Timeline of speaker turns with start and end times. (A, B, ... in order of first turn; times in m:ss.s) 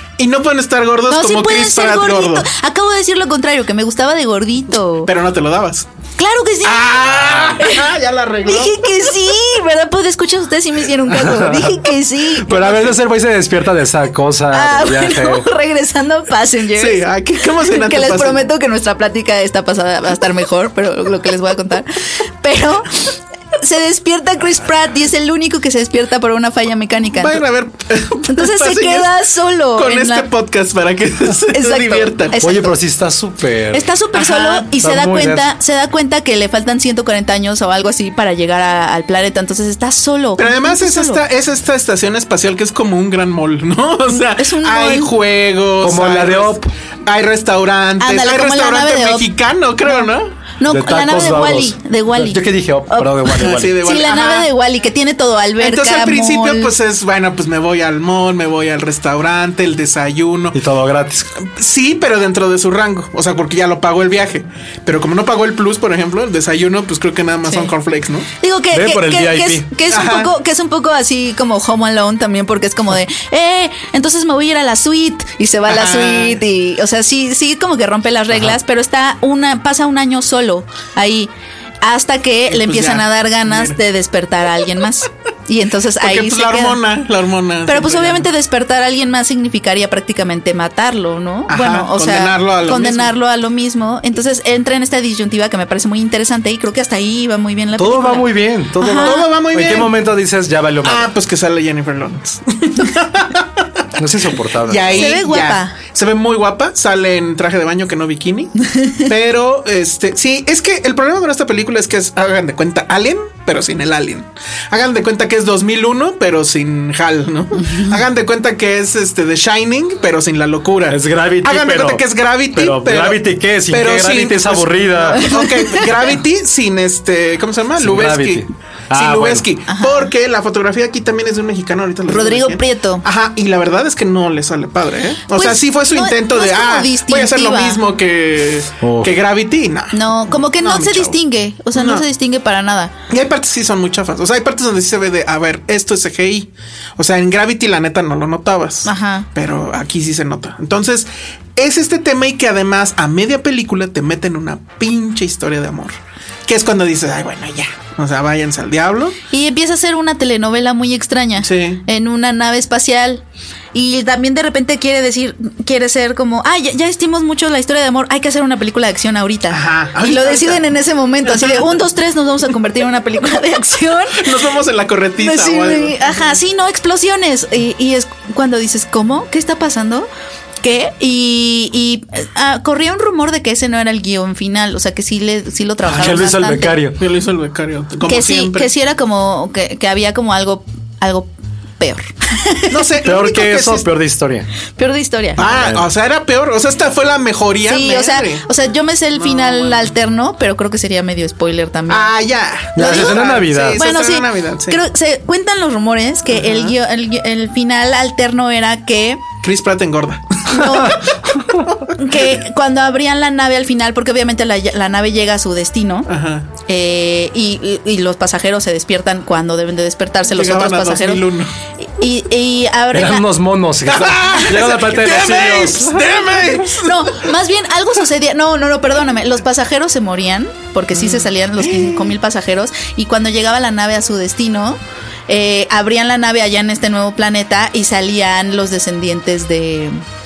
0:00.2-0:02.5 A
0:01.1-0:05.1 B
0:05.0-0:05.9 A
0:06.2-0:07.9 B
0:06.6-0:08.9 A
0:08.4-0:12.8 B
0:11.1-0:11.9 C
0:12.4-0:15.5 C
0:14.5-0:27.4 B
0:16.8-0:18.5 A
0:27.2-0:29.2 A
0:28.2-0:30.3 B
0:29.7-0:32.4 A
0:31.5-0:32.7 B
0:32.4-0:33.9 C
0:33.7-0:41.2 B
0:34.1-0:34.7 A
0:34.8-0:35.5 C
0:40.4-0:50.3 A
0:44.1-0:45.1 B
0:45.8-0:46.7 C
0:48.0-0:49.3 B
0:50.6-0:56.7 B
0:50.7-0:53.8 C
0:53.4-0:54.5 A
0:55.6-1:00.6 A
1:00.5-1:01.3 C
1:01.4-1:08.3 A
1:07.4-1:07.7 B
1:08.4-1:21.3 B
1:08.7-1:09.7 C
1:09.9-1:10.3 A
1:15.7-1:16.4 A
1:21.8-1:26.8 B
1:22.5-1:23.8 A
1:26.0-1:28.3 A
1:27.7-1:39.2 B
1:31.5-1:33.1 A
1:37.8-1:41.1 C
1:38.9-1:40.0 A
1:40.8-1:44.0 A
1:44.0-1:45.0 C
1:44.6-2:21.2 A
1:44.9-1:45.7 B
1:48.6-1:49.1 B
1:57.6-1:58.0 B
2:00.9-2:05.3 C
2:05.5-2:05.8 B
2:07.8-2:09.4 C
2:09.7-2:10.1 B
2:12.1-2:13.0 B
2:15.3-2:17.8 B
2:18.8-2:19.1 C
2:19.9-2:22.9 B
2:21.7-2:22.0 A
2:23.1-2:39.2 A
2:28.8-2:29.3 B
2:39.3-2:43.2 B
2:41.4-2:41.8 A
2:43.7-2:54.3 B
2:49.5-2:50.7 A
2:51.2-2:51.6 A
2:54.1-2:56.2 A
2:55.2-3:00.1 B
3:00.6-3:06.8 B
3:05.9-3:06.4 A
3:05.9-3:07.0 C
3:07.0-3:08.7 A
3:08.1-3:12.7 B
3:12.7-3:13.9 A
3:13.0-3:14.5 C
3:14.8-3:15.4 B
3:15.4-3:18.4 A
3:15.4-3:15.8 C
3:17.7-3:22.1 B
3:19.1-3:19.9 A
3:21.9-3:24.8 A
3:22.7-3:23.8 C
3:22.8-3:29.2 B
3:26.3-3:26.8 A
3:29.4-3:32.4 A
3:30.5-3:31.2 B
3:31.9-3:36.1 B
3:36.1-3:36.5 A
3:36.7-3:41.2 B
3:40.3-3:41.5 A
3:41.8-3:43.2 B
3:42.9-3:46.0 C
3:43.8-3:47.3 A
3:46.6-4:00.0 B
3:50.9-3:52.2 A